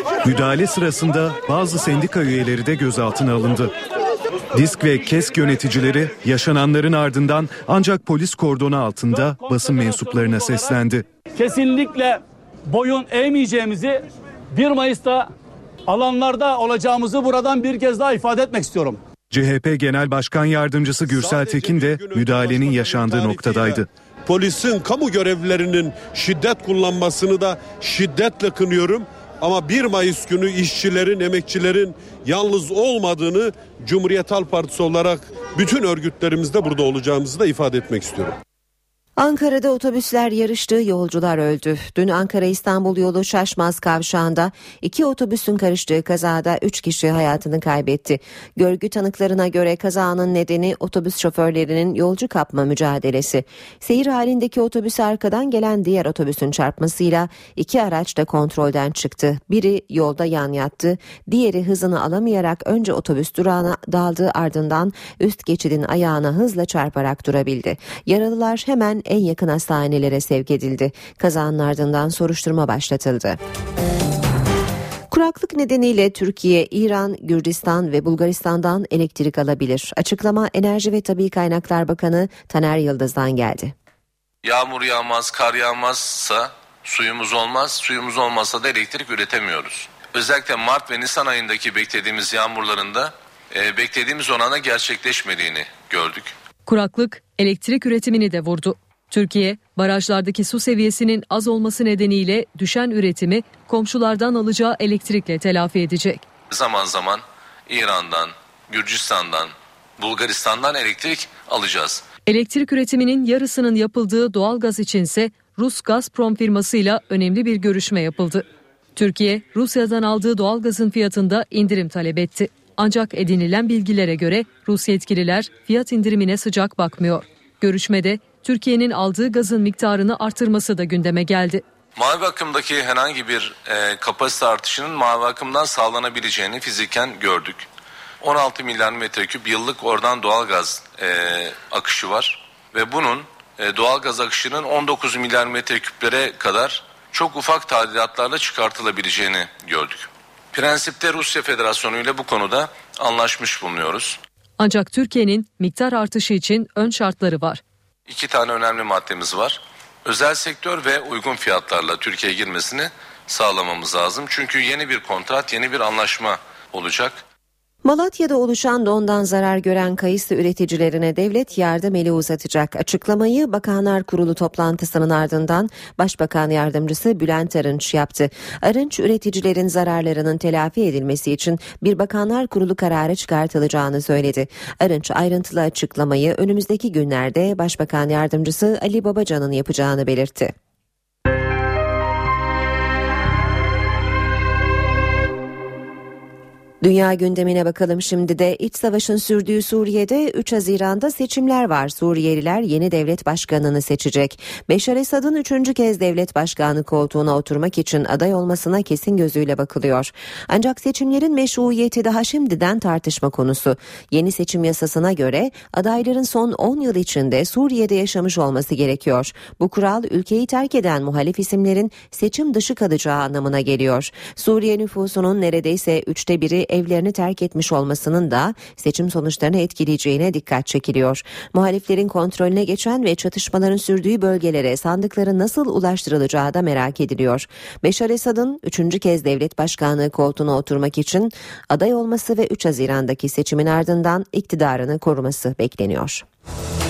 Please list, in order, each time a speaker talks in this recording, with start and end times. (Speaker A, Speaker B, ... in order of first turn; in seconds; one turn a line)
Speaker A: 0.2-3.7
Speaker A: 4.5-11.1
Speaker B: 9.5-10.7
Speaker B: 11.4-15.3
Speaker B: 15.9-19.0
Speaker A: 19.3-23.9
Speaker C: 21.1-38.4
Speaker D: 39.2-73.4
Speaker D: 75.1-83.7
Speaker E: 84.4-96.3
Speaker F: 96.7-106.3
Speaker E: 106.5-112.0
Speaker F: 112.3-118.4
Speaker F: 119.0-131.6
Speaker E: 131.9-137.7
Speaker E: 138.2-154.2
Speaker F: 154.6-157.6
Speaker E: 158.1-167.2
Speaker D: 167.8-190.5
Speaker D: 196.8-246.2